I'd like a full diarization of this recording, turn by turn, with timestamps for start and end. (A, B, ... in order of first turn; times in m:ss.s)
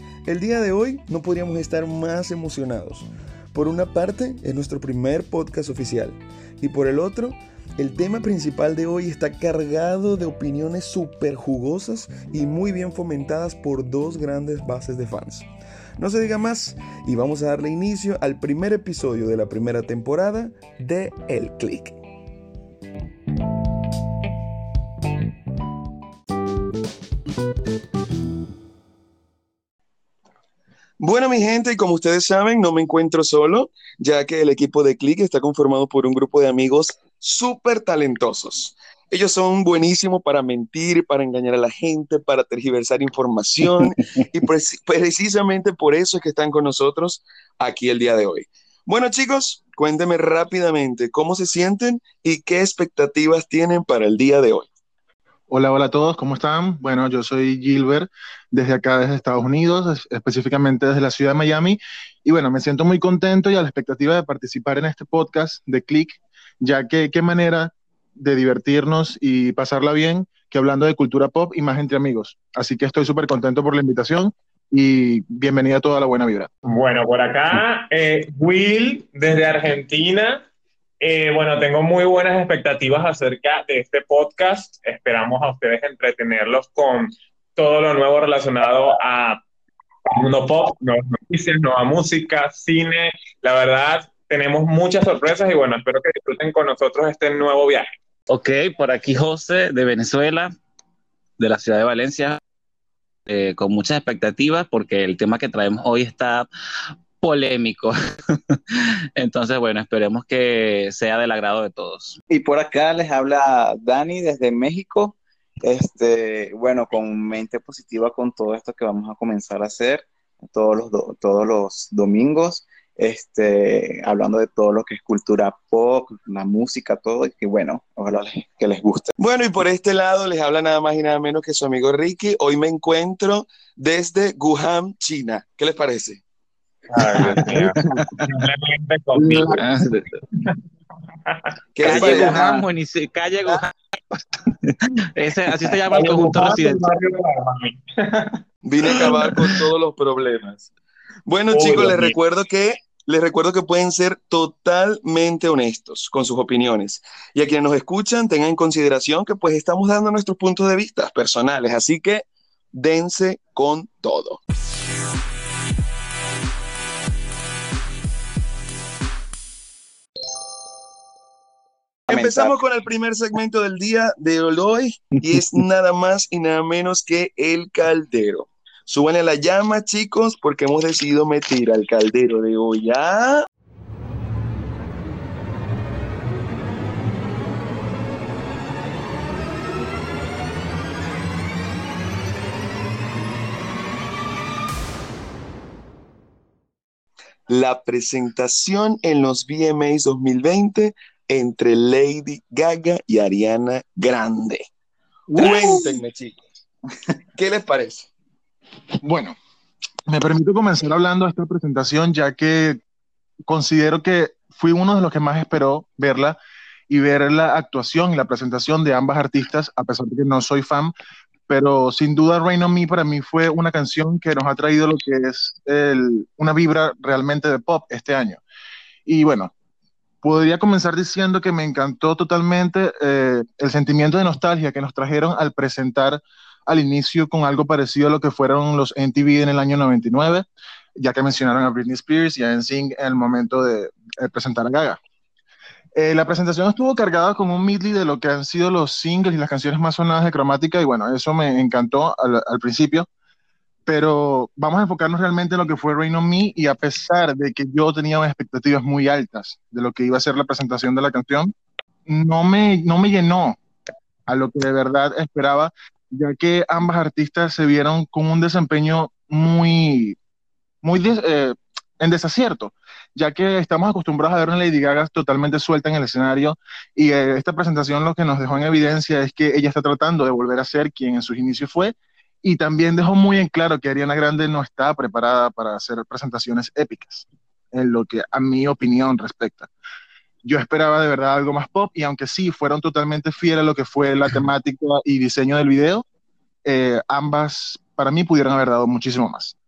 0:00.2-0:22.0 A
0:31.0-0:54.7 A
0:55.5-1:16.5 B
1:16.7-1:20.4 C
1:21.0-1:29.4 C
1:30.1-1:37.9 C
1:38.3-1:40.5 D
1:41.4-1:42.4 D
1:43.2-1:46.5 D
1:47.2-1:52.2 D
1:52.3-2:09.1 E
2:09.2-2:16.2 A
2:16.9-2:19.6 C
2:17.2-2:17.6 A
2:17.2-2:18.5 D
2:19.1-2:19.7 A
2:19.5-2:20.1 D
2:21.8-2:22.6 A
2:21.8-2:26.9 D
2:25.9-2:29.1 C
2:28.6-2:30.7 A
2:31.3-2:44.4 A
2:31.5-2:32.1 C
2:52.1-2:52.6 E
2:52.1-3:03.4 A
3:17.5-3:24.7 A
3:25.3-3:25.9 B
3:25.4-3:26.4 A
3:27.4-3:28.1 A
3:29.0-3:29.4 B
3:30.1-3:32.8 B
3:33.5-3:36.4 B
3:36.9-3:40.9 B
3:41.5-3:48.4 B
3:49.0-3:49.5 B
3:50.2-4:00.4 B
4:01.0-4:05.0 B
4:06.0-4:13.1 B
4:13.8-4:21.5 B
4:22.1-4:23.6 B
4:24.3-4:30.2 B
4:30.8-4:49.7 B
4:50.4-4:56.0 B
4:56.6-4:59.5 B